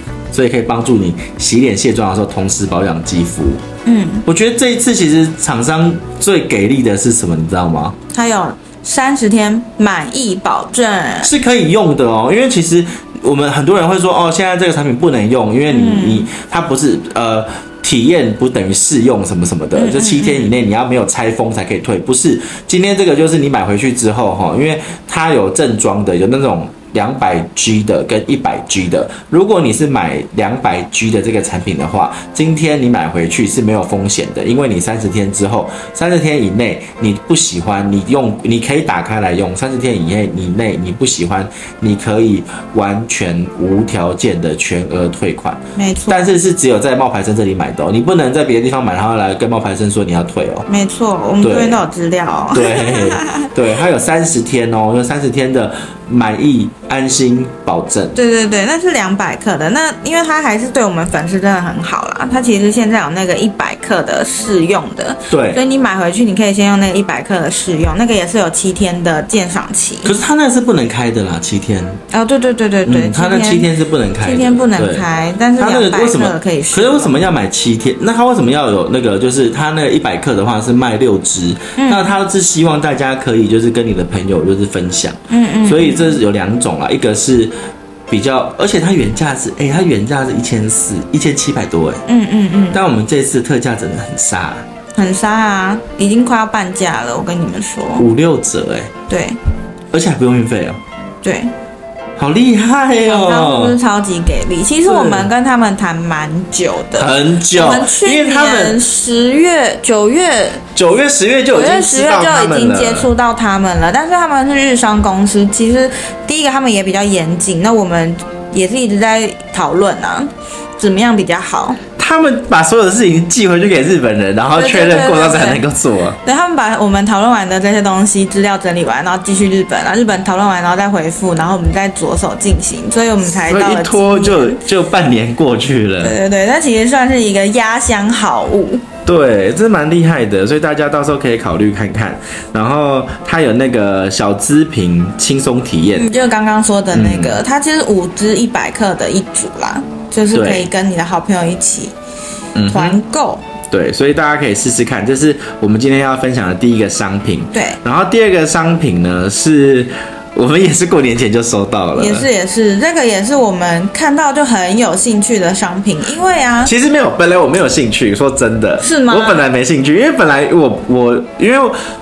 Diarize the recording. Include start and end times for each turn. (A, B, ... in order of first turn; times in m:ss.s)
0:00.3-0:03.6 A
0:03.8-0:04.2 B
0:04.2-0:08.0 A
0:08.1-0:11.3 B
0:11.2-0:50.7 A
0:15.7-0:16.3 B
0:19.8-0:20.5 B
0:45.8-0:46.3 B
0:50.7-0:53.5 B
0:51.4-0:51.8 A
0:52.5-0:58.2 A
0:58.2-1:10.1 B
1:05.3-1:05.6 A
1:10.0-1:12.0 A
1:12.1-1:13.7 B
1:12.9-1:15.0 A
1:14.2-1:17.2 B
1:15.6-1:27.5 A
1:21.8-1:22.2 B
1:25.3-1:26.2 B
1:28.1-1:32.0 A
1:32.1-1:32.8 B
1:32.7-1:34.6 A
1:35.0-1:38.1 B
1:38.0-1:38.9 A
1:39.1-1:39.4 B
1:39.9-1:40.8 A
1:41.2-1:41.5 B
1:42.2-1:43.8 A
1:43.1-1:50.6 B
1:44.8-1:45.3 A
1:47.0-1:48.8 A
1:50.8-1:53.1 A
1:51.5-2:01.8 B
2:02.0-2:06.2 A
2:04.6-2:05.6 B
2:06.2-2:14.6 B
2:13.3-2:16.1 A
2:16.0-2:18.8 B
2:19.0-2:26.1 A
2:26.0-2:31.9 B
2:26.9-2:27.4 A
2:30.3-2:30.7 A
2:32.6-2:33.0 A
2:32.7-2:33.4 B
2:33.7-2:42.3 A
2:37.5-2:37.8 B
2:42.0-2:46.7 B
2:46.6-2:51.8 A
2:48.8-2:49.5 B